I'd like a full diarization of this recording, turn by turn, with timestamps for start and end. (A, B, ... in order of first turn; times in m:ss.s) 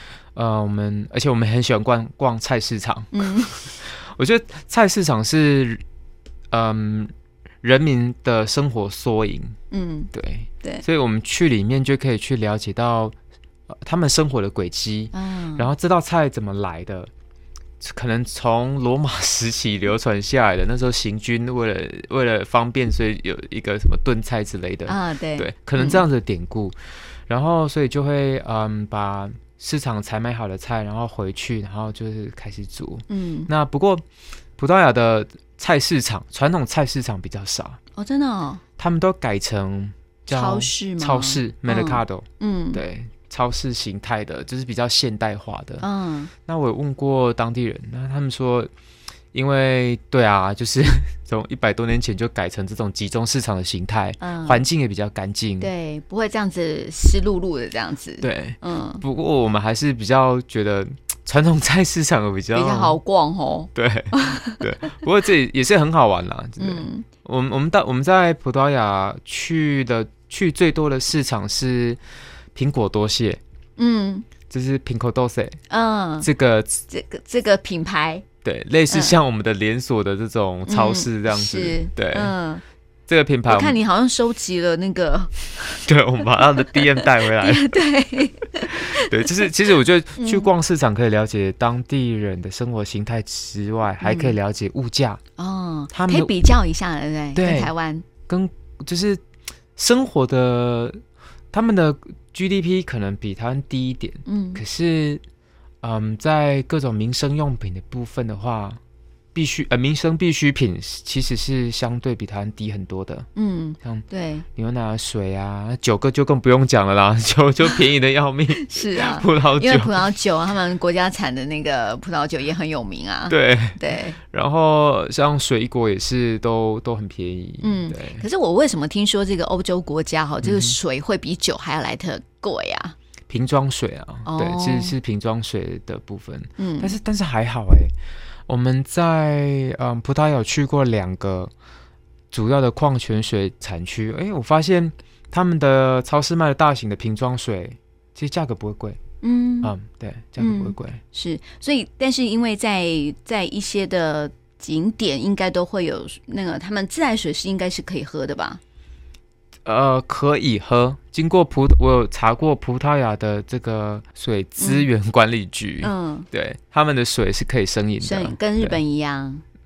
0:00.4-0:05.8 A
0:03.1-0:03.6 B
0:06.5-0:09.6 A
0:09.7-0:10.8 B
0:10.1-0:13.2 A
0:13.7-0:17.1 A
0:15.1-0:15.7 B
0:17.8-0:26.8 A
0:24.9-0:26.0 B
0:27.3-0:34.0 A
0:33.1-0:33.5 B
0:34.6-0:37.8 A
0:38.0-0:38.6 B
0:38.8-0:45.8 A
0:40.3-0:42.8 B
0:45.8-0:46.3 B
0:46.5-0:48.7 A
0:49.3-0:55.7 A
0:54.2-0:54.6 B
0:55.6-0:59.0 B
0:58.2-1:03.0 A
1:02.5-1:04.9 B
1:03.8-1:12.0 A
1:06.6-1:07.1 B
1:12.6-1:13.4 A
1:13.8-1:14.3 B
1:14.5-1:15.6 A
1:15.7-1:16.3 B
1:16.2-1:16.8 A
1:16.9-1:18.2 B
1:18.4-1:22.3 A
1:20.7-1:22.6 B
1:23.1-1:23.8 A
1:23.5-1:25.8 B
1:25.8-1:27.8 A
1:26.4-1:29.5 B
1:28.7-1:35.2 A
1:30.2-1:30.5 B
1:34.0-1:34.4 B
1:35.4-1:38.1 B
1:35.9-1:36.3 A
1:37.3-1:37.7 A
1:38.3-1:39.2 A
1:39.8-1:41.0 A
1:41.5-1:45.2 A
1:44.3-1:44.6 B
1:45.8-1:48.8 A
1:49.3-1:53.3 A
1:53.4-1:54.4 B
1:54.6-2:00.0 A
1:58.5-2:04.2 B
2:03.3-2:08.2 A
2:07.6-2:13.0 B
2:10.4-2:10.8 A
2:13.3-2:17.9 A
2:14.3-2:15.0 B
2:16.6-2:17.0 B
2:18.5-2:21.5 A
2:22.3-2:29.0 A
2:29.2-2:29.7 B
2:29.6-2:31.0 A
2:30.4-2:38.6 B
2:39.6-2:48.8 A
2:44.6-2:44.9 B
2:45.8-2:46.3 B
2:48.0-2:49.4 B